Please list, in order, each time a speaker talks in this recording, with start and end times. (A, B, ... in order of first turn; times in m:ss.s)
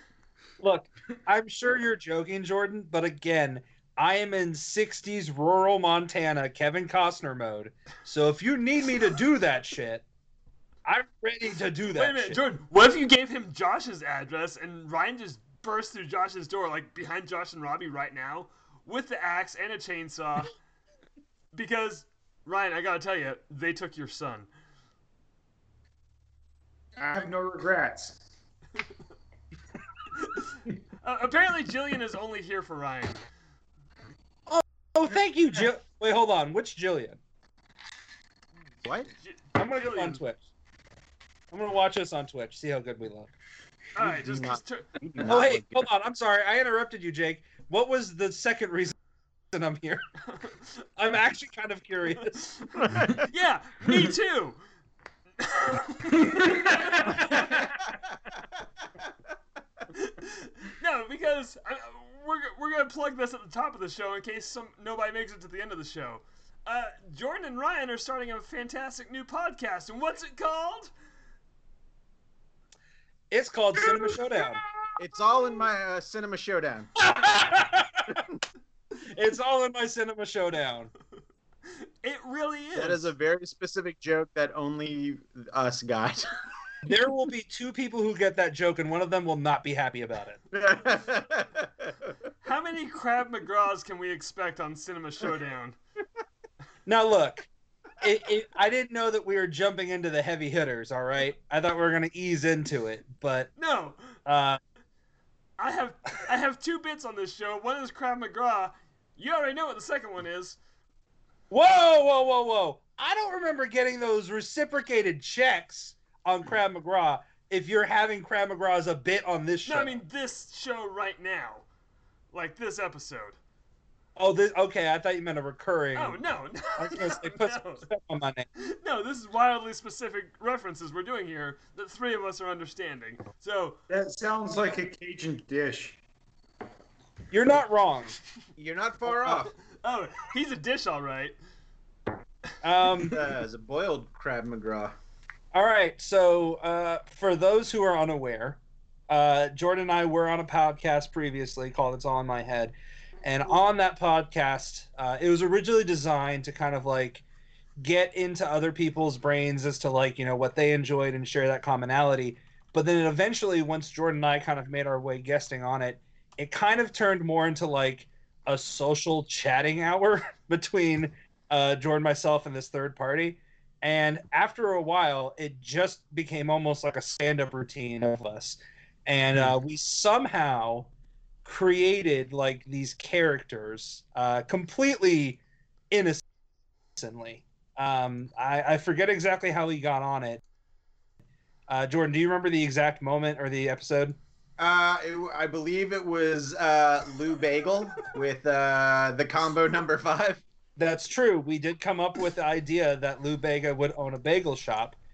0:00.6-0:10.0 A
0:10.8-0:12.4 A
0:11.9-0:20.5 B
0:21.5-0:24.5 B
0:27.0-0:28.2 C
0:30.2-0:30.4 B
0:31.0-0:33.2 B
0:34.5-0:37.2 A
0:38.8-0:39.1 D
0:39.2-0:40.2 B
0:39.6-0:40.4 A
0:41.5-0:43.3 A
0:44.0-0:44.9 B
0:44.0-0:45.9 D
0:45.2-0:48.9 A
0:49.5-0:50.0 A
0:51.0-0:53.1 A
0:52.4-0:54.6 B
0:55.4-0:57.2 B
0:56.3-0:57.6 C
0:57.9-0:59.0 D
0:59.9-1:10.9 B
1:13.3-1:14.6 A
1:15.0-1:17.0 D
1:17.0-1:18.2 A
1:18.1-1:18.4 D
1:19.0-1:20.9 A
1:21.8-1:23.1 B
1:22.7-1:26.3 D
1:26.8-1:30.4 A
1:30.5-1:32.1 D
1:32.4-1:35.8 B
1:36.8-1:37.5 A
1:38.0-1:43.5 A
1:43.6-1:44.0 B
1:44.2-1:44.6 A
1:45.6-1:50.6 B
1:51.5-2:00.0 A
1:59.6-2:01.6 B
2:02.3-2:03.4 B
2:04.2-2:06.2 A
2:05.9-2:07.8 B
2:06.8-2:08.5 A
2:08.6-2:13.8 B
2:13.9-2:16.0 C
2:17.3-2:18.2 A
2:18.6-2:19.5 D
2:19.6-2:21.4 B
2:22.6-2:23.2 A
2:23.0-2:25.0 D
2:25.5-2:37.2 A
2:37.8-3:00.9 A
3:01.4-3:05.4 A
3:05.9-3:06.2 A
3:07.0-3:10.4 A
3:11.7-3:14.2 A
3:14.6-3:20.4 D
3:20.8-3:25.0 A